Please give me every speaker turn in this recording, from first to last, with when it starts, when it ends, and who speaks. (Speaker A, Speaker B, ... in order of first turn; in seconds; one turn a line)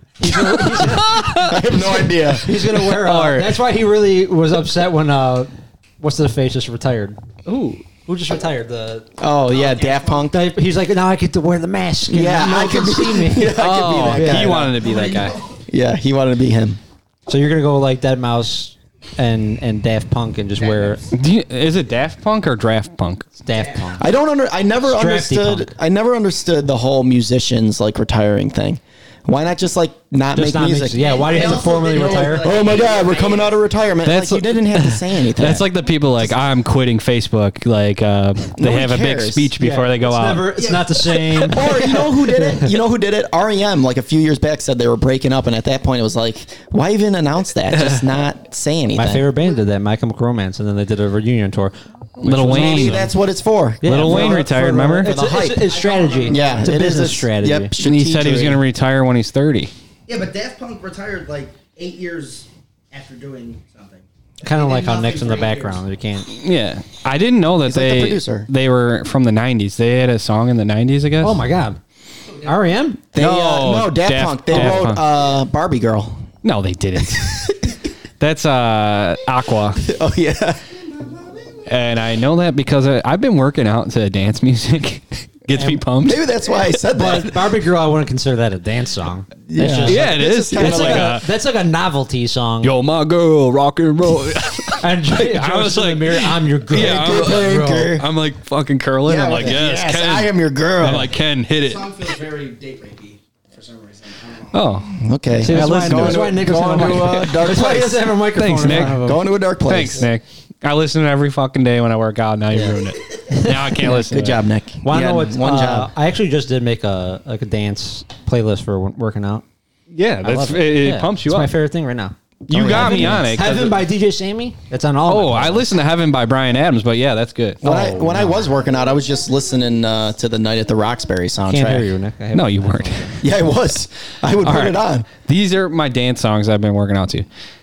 Speaker A: 0.2-9.1
Speaker B: 0.4-3.6
Speaker C: 1.4-2.6
Speaker B: 7.5-7.7
Speaker C: 9.2-10.4
Speaker D: 9.5-10.3
Speaker A: 10.3-13.5
Speaker C: 12.1-14.8
Speaker B: 13.5-15.4
Speaker A: 14.1-14.6
Speaker D: 14.7-15.6
Speaker C: 15.7-16.8
Speaker A: 17.3-21.0
Speaker D: 20.6-21.1
Speaker B: 21.1-23.3
Speaker A: 23.4-24.0
Speaker D: 23.5-24.0
Speaker C: 24.0-35.7
Speaker A: 24.8-25.7
Speaker A: 30.3-32.5
Speaker D: 30.9-33.6
Speaker B: 34.0-40.5
Speaker C: 38.6-39.5
Speaker A: 39.6-42.7
Speaker D: 40.5-41.0
Speaker C: 41.5-49.3
Speaker B: 47.7-48.1
Speaker A: 48.9-51.7
Speaker B: 52.2-53.1
Speaker C: 52.2-54.4
Speaker A: 52.3-53.0
Speaker A: 53.8-57.7
Speaker B: 53.8-55.1
Speaker C: 55.0-55.7
Speaker D: 55.4-56.8
Speaker C: 56.2-58.6
Speaker B: 57.8-59.7
Speaker D: 60.1-65.8
Speaker A: 64.4-66.3
Speaker B: 66.3-71.4
Speaker C: 67.7-68.5
Speaker A: 71.2-71.8
Speaker A: 72.4-73.0
Speaker C: 73.1-76.2
Speaker B: 73.1-75.0
Speaker B: 76.4-77.6
Speaker B: 78.2-79.8
Speaker C: 79.8-80.6
Speaker D: 81.0-81.3
Speaker B: 81.7-86.2
Speaker A: 85.5-85.8
Speaker C: 86.0-87.6
Speaker A: 86.8-92.7
Speaker C: 89.5-91.2
Speaker B: 89.8-91.3
Speaker B: 92.6-101.9
Speaker A: 94.8-98.0
Speaker C: 96.7-98.1
Speaker C: 99.0-101.1
Speaker D: 101.6-104.7
Speaker B: 104.5-104.9
Speaker C: 104.9-108.1
Speaker A: 105.4-109.2
Speaker B: 105.4-106.3
Speaker B: 108.3-109.0
Speaker C: 108.7-110.1
Speaker B: 109.6-114.4
Speaker A: 112.5-114.0
Speaker C: 113.9-115.9
Speaker A: 114.8-119.4
Speaker B: 119.9-121.5
Speaker A: 120.2-125.7
Speaker B: 122.5-123.8
Speaker C: 122.5-123.2
Speaker B: 125.1-127.6
Speaker C: 127.6-131.9
Speaker A: 127.6-128.4
Speaker A: 131.5-133.2
Speaker B: 132.3-133.1
Speaker C: 133.2-135.1
Speaker B: 134.4-137.2